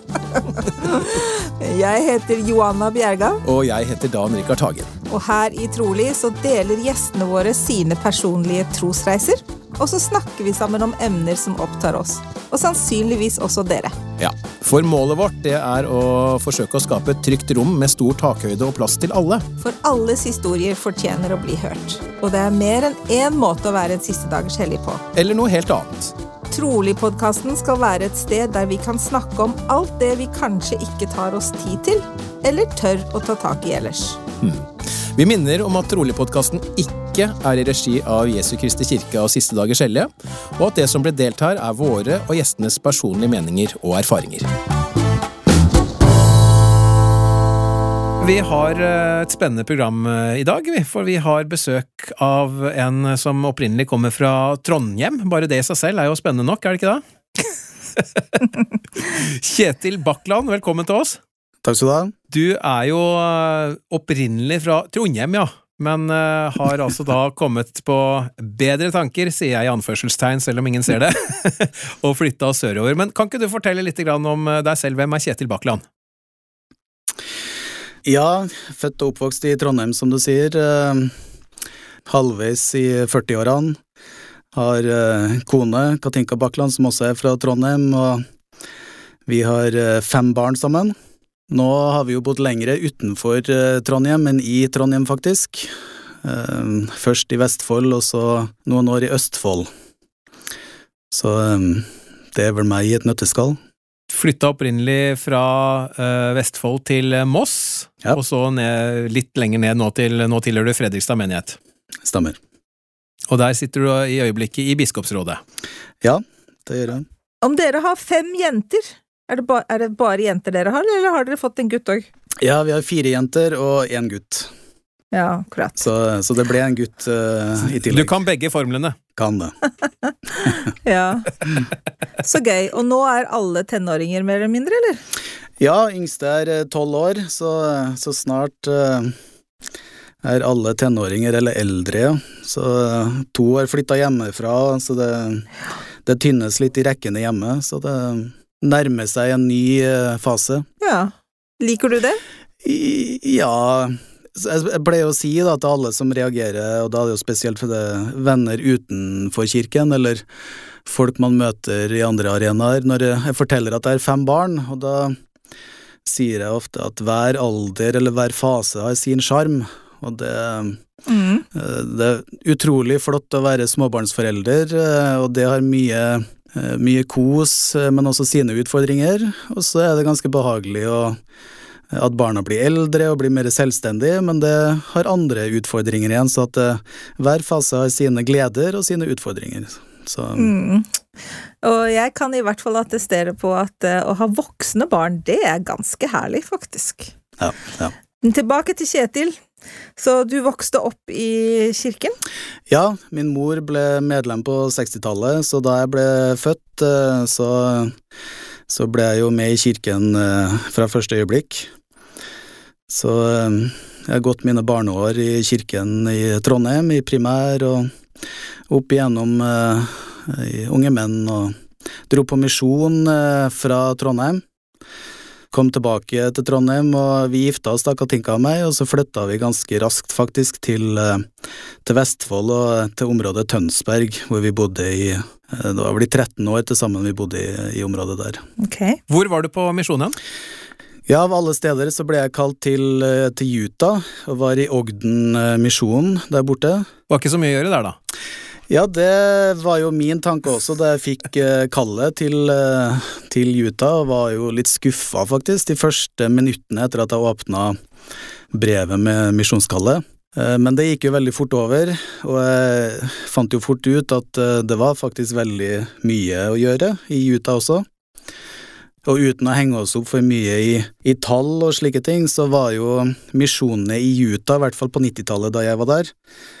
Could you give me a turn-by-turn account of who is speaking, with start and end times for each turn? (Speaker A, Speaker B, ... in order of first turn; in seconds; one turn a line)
Speaker A: 0.3-3.4
Speaker B: 3.4-4.9
Speaker A: 5.1-14.0
Speaker B: 14.2-19.5
Speaker A: 19.6-25.1
Speaker B: 25.1-26.1
Speaker A: 26.5-34.2
Speaker B: 34.4-44.5
Speaker B: 48.2-61.2
Speaker C: 61.6-62.1
Speaker B: 62.3-75.8
Speaker C: 78.0-81.1
Speaker C: 82.0-83.8
Speaker C: 84.5-88.2
Speaker C: 89.2-90.9
Speaker C: 91.5-95.7
Speaker C: 96.2-99.7
Speaker C: 101.1-103.6
Speaker B: 104.1-111.6
Speaker C: 112.0-112.4
Speaker B: 113.3-115.4
Speaker C: 116.0-117.0
Speaker A: 117.4-122.1
Speaker C: 122.4-124.5
Speaker A: 125.1-125.8
Speaker C: 125.8-128.1
Speaker B: 127.8-129.0
Speaker C: 129.2-129.6
Speaker A: 130.1-131.4
Speaker A: 132.2-135.0
Speaker C: 135.6-139.1
Speaker C: 140.2-145.5
Speaker C: 146.0-150.7
Speaker A: 150.8-152.2
Speaker C: 152.6-160.2
Speaker C: 160.8-165.2
Speaker C: 166.0-170.8
Speaker A: 171.1-171.4
Speaker C: 171.5-181.2
Speaker C: 181.9-190.5
Speaker A: 190.3-190.9
Speaker A: 191.6-197.1
Speaker C: 197.4-197.9
Speaker A: 198.2-199.4
Speaker A: 200.0-202.2
Speaker C: 202.7-207.9
Speaker C: 208.7-211.7
Speaker C: 212.9-217.9
Speaker C: 218.7-221.6
Speaker C: 222.1-224.4
Speaker C: 225.5-231.2
Speaker C: 231.8-238.4
Speaker A: 238.6-239.0
Speaker B: 239.1-240.2
Speaker C: 241.1-246.9
Speaker B: 247.1-247.9
Speaker C: 248.7-257.8
Speaker C: 258.5-267.9
Speaker C: 269.0-276.1